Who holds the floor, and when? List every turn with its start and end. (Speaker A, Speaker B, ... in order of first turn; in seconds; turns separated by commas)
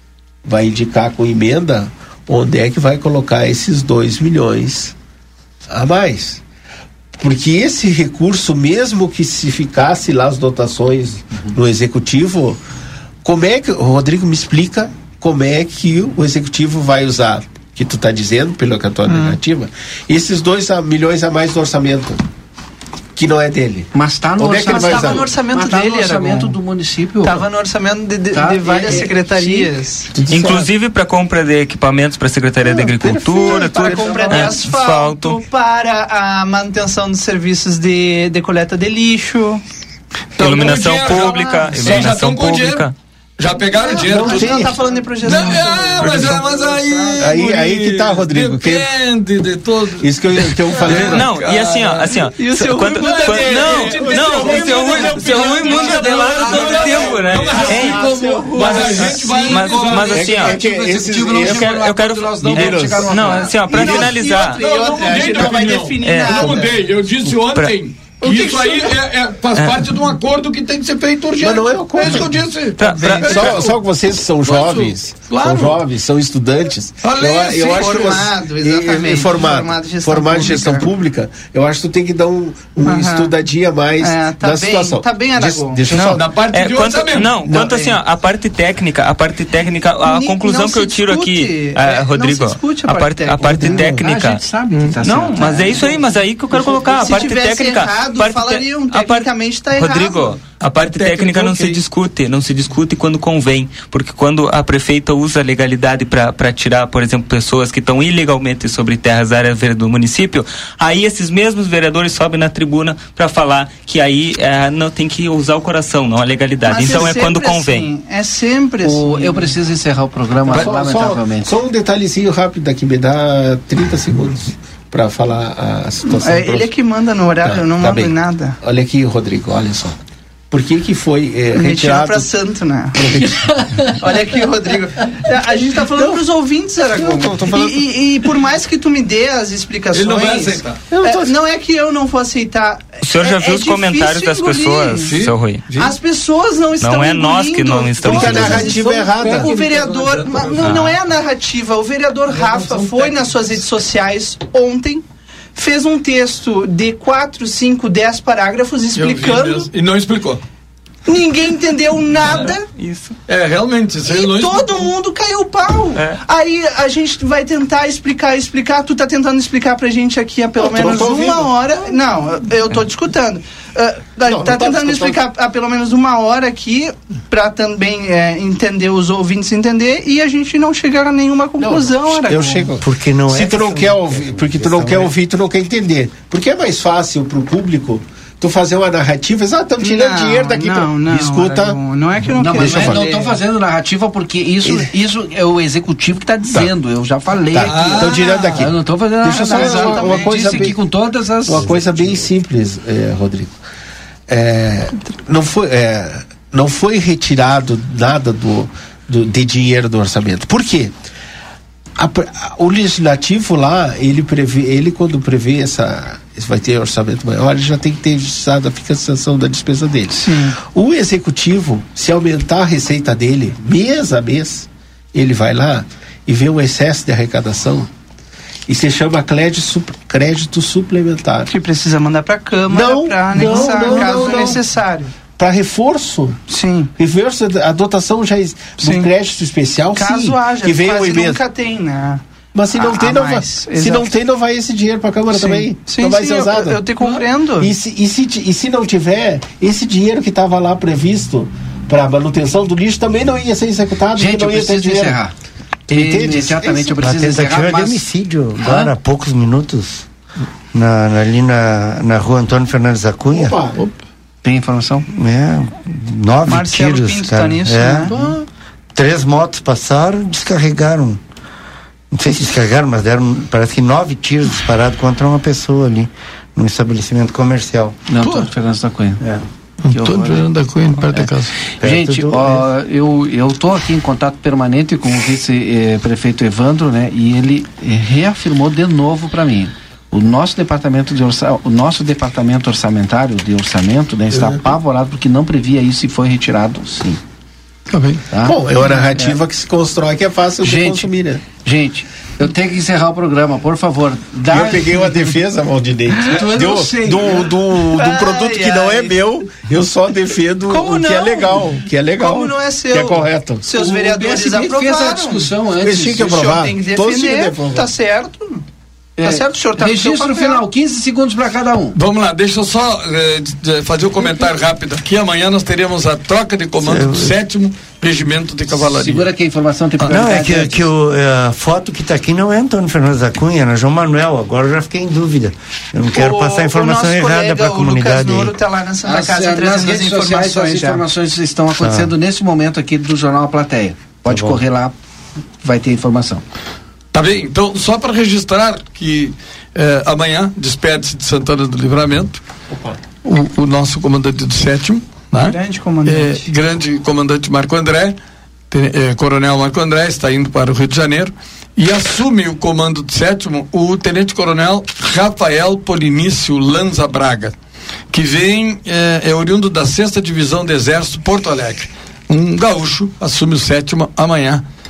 Speaker A: 0.5-4.9, Speaker A: 5.7-6.4, Speaker A: 7.2-12.6, Speaker A: 13.2-22.2, Speaker B: 19.1-19.4, Speaker A: 23.2-25.3, Speaker C: 23.9-27.4, Speaker B: 24.6-26.6, Speaker B: 27.2-30.1, Speaker C: 28.3-29.7, Speaker A: 30.1-30.7, Speaker D: 30.3-35.4, Speaker A: 32.6-34.3, Speaker B: 33.4-39.6, Speaker C: 33.5-34.5, Speaker E: 40.4-52.3, Speaker D: 40.4-43.0, Speaker B: 40.9-42.0, Speaker B: 43.7-47.4, Speaker A: 43.9-44.8, Speaker A: 45.3-46.4, Speaker A: 47.2-48.9, Speaker A: 50.0-51.4, Speaker D: 50.9-60.6, Speaker B: 52.3-54.5, Speaker E: 53.0-60.3, Speaker A: 53.0-56.1, Speaker C: 56.2-56.8, Speaker A: 56.6-59.2, Speaker C: 57.7-63.8, Speaker A: 60.1-61.8, Speaker D: 61.4-64.6, Speaker A: 62.4-63.1, Speaker B: 63.7-66.8, Speaker A: 63.7-64.1, Speaker E: 64.3-73.8, Speaker A: 64.9-65.8, Speaker D: 66.0-66.6, Speaker D: 67.2-67.8, Speaker B: 68.2-68.9, Speaker D: 69.5-69.9, Speaker A: 71.4-72.4, Speaker D: 72.8-73.7, Speaker A: 73.2-86.4, Speaker E: 74.4-75.8, Speaker E: 77.0-78.3, Speaker B: 77.7-80.9, Speaker B: 82.8-83.3, Speaker B: 84.0-85.8, Speaker D: 85.9-94.4, Speaker E: 86.1-87.4, Speaker A: 87.5-87.8, Speaker B: 87.5-88.0, Speaker B: 90.0-93.5, Speaker A: 93.4-94.0, Speaker C: 93.6-97.0, Speaker D: 95.0-117.9, Speaker B: 97.0-100.4, Speaker E: 100.6-101.8, Speaker B: 116.7-119.6, Speaker C: 118.8-121.5, Speaker A: 120.5-126.7, Speaker B: 126.0-128.6, Speaker A: 127.4-130.0, Speaker A: 130.5-132.3, Speaker B: 131.5-133.2, Speaker A: 133.0-133.3, Speaker C: 133.2-133.9, Speaker B: 134.0-145.2, Speaker A: 135.9-136.2, Speaker A: 136.9-137.8, Speaker E: 139.9-140.9, Speaker A: 140.9-141.3, Speaker D: 143.0-145.7, Speaker E: 145.0-145.9, Speaker B: 145.7-155.0, Speaker D: 146.8-148.8, Speaker A: 148.0-149.5, Speaker E: 148.4-151.0, Speaker D: 150.6-150.9, Speaker E: 152.3-153.4, Speaker B: 155.6-159.7, Speaker E: 158.9-160.4, Speaker B: 161.1-162.7, Speaker E: 162.2-162.5, Speaker D: 162.5-163.2, Speaker E: 163.3-164.9, Speaker B: 164.1-182.8, Speaker A: 170.6-171.5, Speaker A: 174.3-175.2, Speaker A: 181.6-191.8, Speaker F: 182.8-185.1, Speaker B: 189.8-193.4, Speaker C: 192.4-202.3, Speaker A: 192.4-193.1, Speaker A: 197.5-200.8, Speaker E: 197.6-198.6, Speaker B: 199.2-200.7, Speaker A: 201.4-203.6, Speaker A: 204.3-210.9, Speaker A: 212.0-227.9, Speaker B: 220.2-220.6, Speaker A: 228.7-231.5, Speaker B: 231.5-235.1, Speaker A: 232.7-234.6, Speaker A: 235.3-236.4, Speaker B: 236.5-236.9, Speaker A: 237.0-241.4, Speaker B: 238.8-239.1, Speaker B: 239.9-244.1, Speaker A: 242.5-246.8, Speaker B: 245.3-247.7, Speaker A: 247.6-255.2, Speaker C: 254.2-255.3, Speaker C: 255.9-258.1, Speaker A: 255.9-256.9, Speaker F: 257.0-260.1, Speaker C: 258.6-258.9, Speaker F: 260.7-263.6, Speaker A: 263.3-263.8, Speaker C: 264.4-265.1, Speaker F: 265.1-268.1, Speaker B: 266.5-268.1, Speaker C: 268.1-268.4, Speaker F: 268.9-271.2, Speaker F: 272.1-278.0, Speaker C: 278.1-279.2, Speaker F: 279.2-279.5, Speaker E: 279.9-281.5, Speaker C: 279.9-280.5, Speaker F: 281.8-282.6, Speaker C: 281.8-297.2, Speaker A: 294.3-294.6, Speaker E: 297.9-298.2, Speaker C: 298.3-299.4, Speaker A: 298.4-301.4, Speaker C: 300.6-305.3, Speaker A: 304.5-313.9, Speaker C: 306.1-307.5, Speaker B: 307.9-309.2, Speaker B: 310.7-311.6, Speaker B: 312.2-315.5, Speaker C: 313.8-316.5, Speaker A: 315.8-317.9, Speaker B: 316.2-318.6, Speaker C: 319.2-322.0, Speaker B: 319.2-320.6, Speaker E: 321.9-329.3, Speaker B: 324.2-324.5, Speaker F: 326.8-327.4, Speaker C: 328.9-330.9, Speaker F: 330.1-338.6, Speaker B: 336.1-341.1, Speaker C: 339.0-344.9, Speaker F: 341.8-342.1, Speaker F: 344.3-344.6, Speaker C: 345.6-346.4, Speaker E: 347.1-352.4, Speaker A: 352.7-353.0, Speaker E: 353.2-358.2, Speaker B: 355.4-356.5, Speaker E: 358.7-367.6, Speaker E: 368.1-374.6